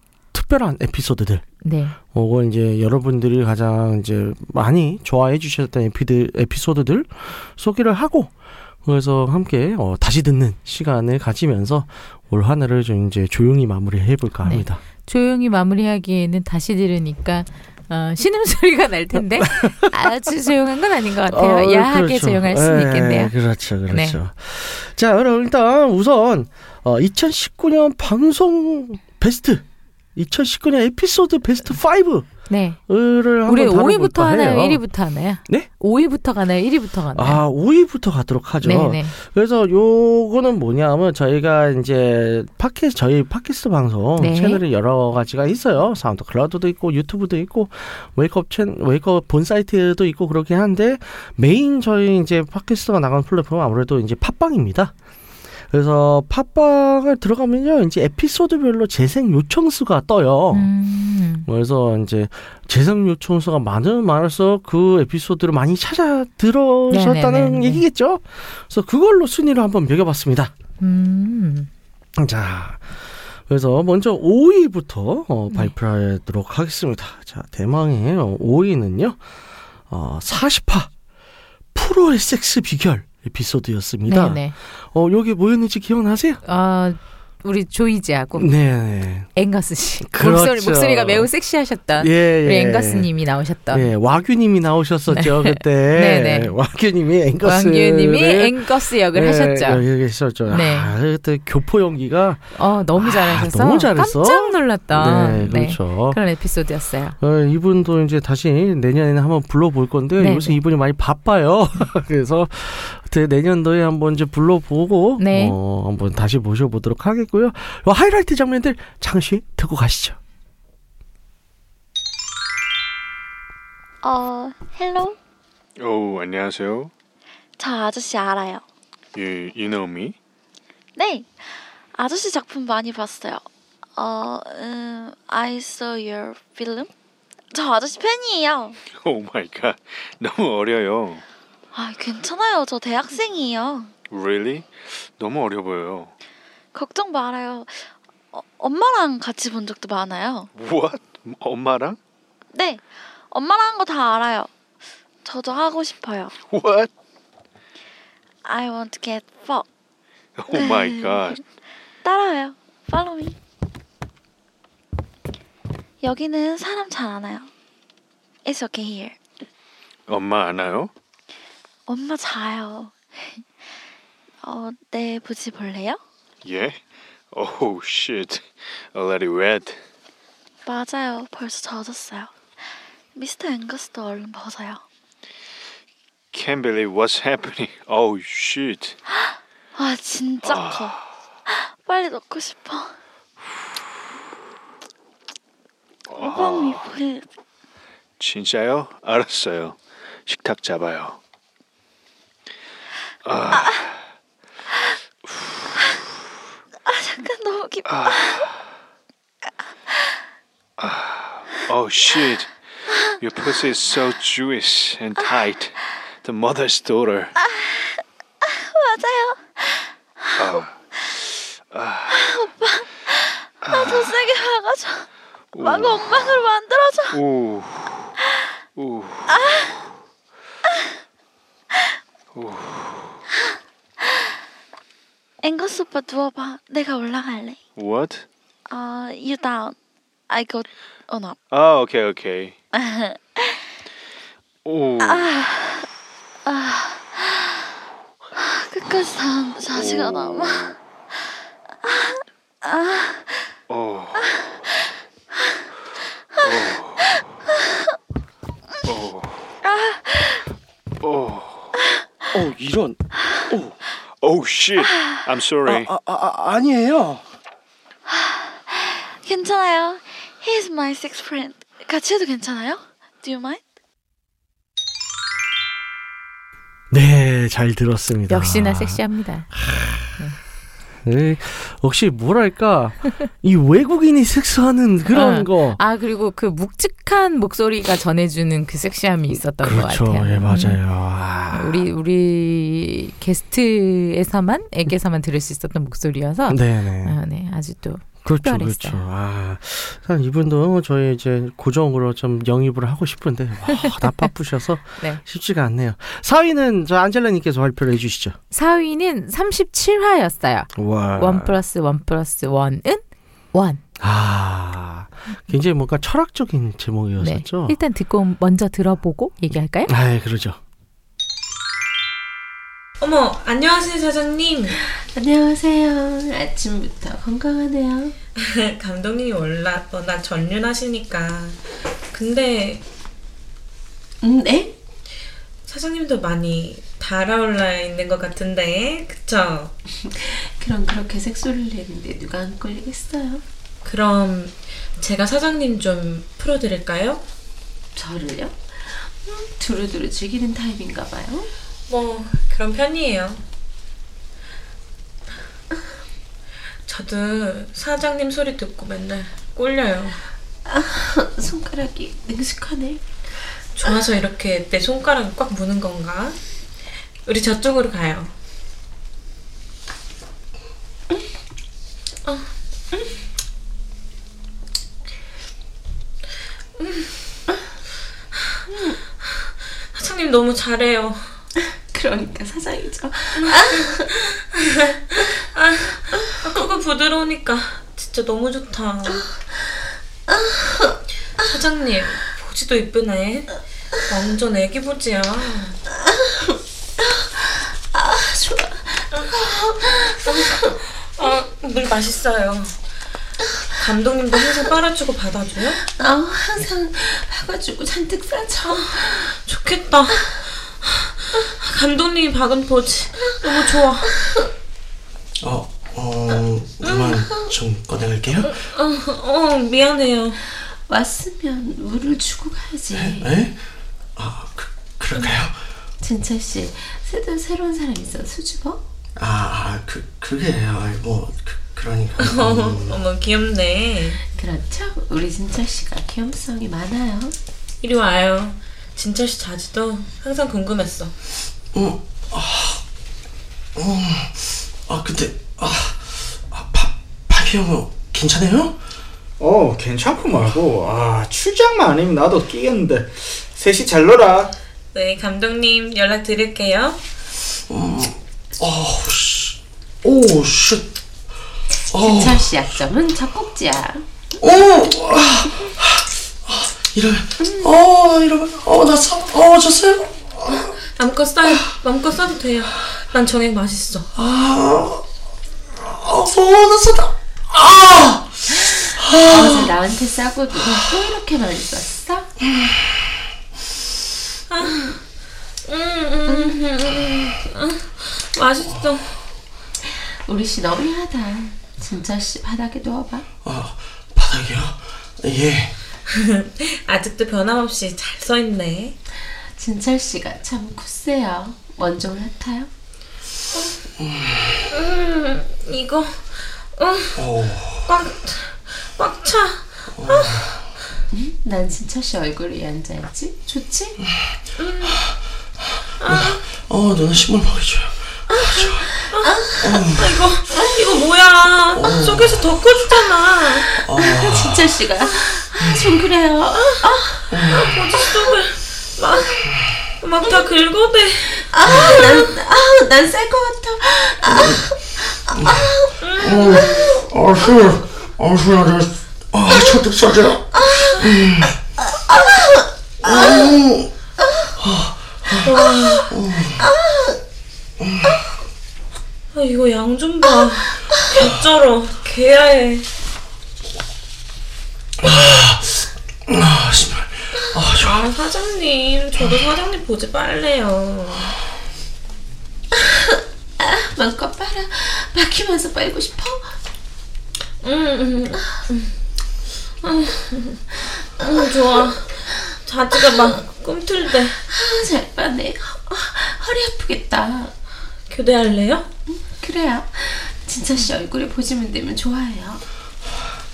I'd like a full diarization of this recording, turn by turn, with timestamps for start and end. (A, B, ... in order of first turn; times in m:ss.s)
0:00.3-0:01.4 A
0:01.6-0:02.0 B
0:02.1-0:08.3 A
0:08.8-0:14.8 A
0:14.4-0:23.3 B
0:19.4-0:20.1 A
0:21.3-0:29.6 A
0:23.9-0:24.2 B
0:30.2-0:32.3 A
0:32.5-0:32.8 B
0:32.8-0:34.8 A
0:33.4-0:37.4 B
0:37.1-0:54.9 A
0:38.6-0:39.1 B
0:44.2-0:44.6 B
0:55.7-1:00.7 A
1:00.5-1:01.4 B
1:01.4-1:10.5 A
1:06.9-1:07.8 B
1:10.8-1:11.7 B
1:12.2-1:19.2 A
1:19.9-1:20.9 A
1:21.7-1:26.4 A
1:24.1-1:24.5 B
1:26.4-1:28.5 B
1:28.4-1:29.3 A
1:29.3-1:33.9 B
1:30.0-1:31.3 A
1:32.0-1:33.1 A
1:33.7-1:46.2 A
1:35.1-1:36.5 B
1:37.4-1:39.8 B
1:40.5-1:40.9 B
1:42.5-1:47.2 B
1:47.2-2:00.2 A
1:50.2-1:50.6 B
1:55.2-1:55.6 B
2:04.0-2:05.2 C
2:05.8-2:06.9 D
2:07.6-2:08.6 C
2:09.1-2:10.2 D
2:11.0-2:16.9 C
2:17.5-2:18.8 C
2:18.9-2:21.2 D
2:21.7-2:23.9 C
2:24.1-2:26.1 D
2:26.7-2:30.5 C
2:30.5-2:32.0 D
2:32.5-2:34.5 C
2:35.2-2:36.3 C
2:36.5-2:36.9 D
2:38.4-2:39.6 C
2:40.4-2:41.4 D
2:40.5-2:41.4 C
2:42.0-2:43.4 C
2:46.0-2:47.5 C
2:48.4-2:49.2 C
2:50.1-2:50.9 D
2:51.9-2:53.4 C
2:54.4-2:56.0 C
2:56.4-2:56.8 D
2:57.3-2:59.8 D
3:00.6-3:04.8 C
3:06.3-3:09.0 D
3:09.1-3:12.9 C
3:10.4-3:11.1 D
3:16.1-3:16.9 D
3:16.2-3:17.2 C
3:18.2-3:21.2 D
3:23.2-3:24.0 D
3:23.5-3:23.8 C
3:26.8-3:28.5 C
3:27.8-3:28.5 D
3:29.9-3:30.1 C
3:30.8-3:32.5 D
3:33.2-3:37.3 D
3:37.4-3:40.6 C
3:40.4-3:40.8 D
3:41.6-3:42.2 D
3:42.1-3:45.1 C
3:43.7-3:44.1 D
3:45.5-3:46.1 D
3:45.6-3:47.2 C
3:47.1-3:48.1 D
3:48.8-3:49.3 D
3:49.3-3:49.7 C
3:52.3-3:53.2 D
3:55.4-3:57.6 C
3:57.8-3:58.2 D
3:58.7-3:59.8 C
4:00.3-4:01.4 C
4:01.5-4:02.5 D
4:02.7-4:03.6 C
4:04.6-4:05.3 D
4:05.0-4:05.8 C
4:06.4-4:07.6 C
4:08.4-4:10.7 C
4:09.7-4:10.8 D
4:11.8-4:13.5 C
4:13.7-4:14.3 D
4:16.4-4:17.0 D
4:18.8-4:19.4 D
4:19.7-4:20.4 C
4:21.0-4:21.7 D
4:22.3-4:23.0 A
4:24.2-4:25.9 D
4:24.8-4:25.2 C
4:25.6-4:27.2 A
4:28.1-4:33.6 C
4:36.9-4:39.0 A
4:38.3-4:39.5 B
4:41.0-4:45.8 A
4:45.1-4:50.8 B
4:49.3-4:51.8 A
4:51.5-4:59.0 B
4:56.5-4:57.2 A
4:58.2-5:08.4 A
5:08.5-5:13.8 B
5:10.7-5:11.6 A
5:14.0-5:17.8 A
5:17.2-5:19.9 B
5:19.8-5:20.6 A
5:23.0-5:24.8 E
5:24.9-5:28.1 F
5:28.4-5:32.8 E
5:34.2-5:34.7 F
5:35.6-5:39.7 E
5:40.0-5:43.4 F
5:43.8-5:47.2 E
5:48.0-5:51.5 F
5:51.9-5:53.4 E
5:56.8-6:00.2 E
6:00.7-6:03.0 F
6:03.8-6:06.4 E
6:07.2-6:08.3 E
6:12.2-6:13.2 E
6:18.7-6:19.0 F
6:19.9-6:21.4 E
6:21.9-6:24.0 F
6:23.4-6:29.3 E
6:30.3-6:31.0 F
6:31.4-6:35.8 E
6:37.1-6:40.7 F
6:39.1-6:42.8 E
6:43.7-6:45.8 E
6:45.9-6:49.3 F
6:48.8-6:54.2 E
6:55.4-6:58.6 G
6:56.9-6:57.3 E
6:58.4-7:00.4 E
7:00.7-7:03.4 F
7:02.9-7:03.6 G
7:04.2-7:05.6 G
7:06.0-7:08.8 F
7:09.2-7:13.0 G
7:12.2-7:14.2 E
7:14.3-7:17.3 F
7:17.8-7:21.1 E
7:21.7-7:22.8 G
7:23.7-7:28.8 G
7:29.4-7:34.5 H
7:34.9-7:37.0 E
7:37.7-7:40.9 G
7:41.9-7:44.1 F
7:41.9-7:42.6 G
7:44.4-7:50.7 G
7:50.9-7:54.1 E
7:51.4-7:51.7 G
7:54.1-7:55.0 G
7:55.8-7:59.7 G
7:59.3-8:02.4 F
8:04.5-8:05.0 E
8:05.7-8:09.1 E
8:06.3-8:06.6 F
8:09.8-8:13.3 F
8:13.4-8:15.7 G
8:16.1-8:19.0 E
8:19.5-8:22.7 F
8:24.0-8:24.6 G
8:24.7-8:30.5 E
8:27.2-8:27.9 G
8:29.9-8:30.6 G
8:31.1-8:34.0 F
8:34.6-8:35.0 E
8:36.0-8:36.4 E
8:36.0-8:39.1 G
8:38.3-8:43.8 E
8:39.6-8:40.2 G
8:41.7-8:42.6 G
8:43.8-8:44.7 G
8:43.9-8:48.4 F
8:45.6-8:45.9 G
8:47.3-8:47.8 G
8:47.4-8:49.3 E
8:49.1-8:49.4 F
8:50.0-8:52.3 E
8:50.2-8:50.5 F
8:51.5-8:55.9 F
8:55.3-8:55.6 G
8:56.0-8:56.8 E
8:56.2-9:01.5 G
9:00.6-9:00.9 F
9:02.2-9:03.5 F
9:03.0-9:03.9 G
9:04.6-9:06.6 G
9:05.4-9:06.4 E
9:07.8-9:08.1 G
9:09.3-9:12.9 E
9:15.0-9:18.1 G
9:17.7-9:21.3 E
9:23.6-9:26.6 F
9:27.6-9:28.9 E
9:29.8-9:30.6 E
9:31.2-9:34.4 E
9:34.4-9:37.5 F
9:38.1-9:38.9 E
9:39.3-9:42.6 F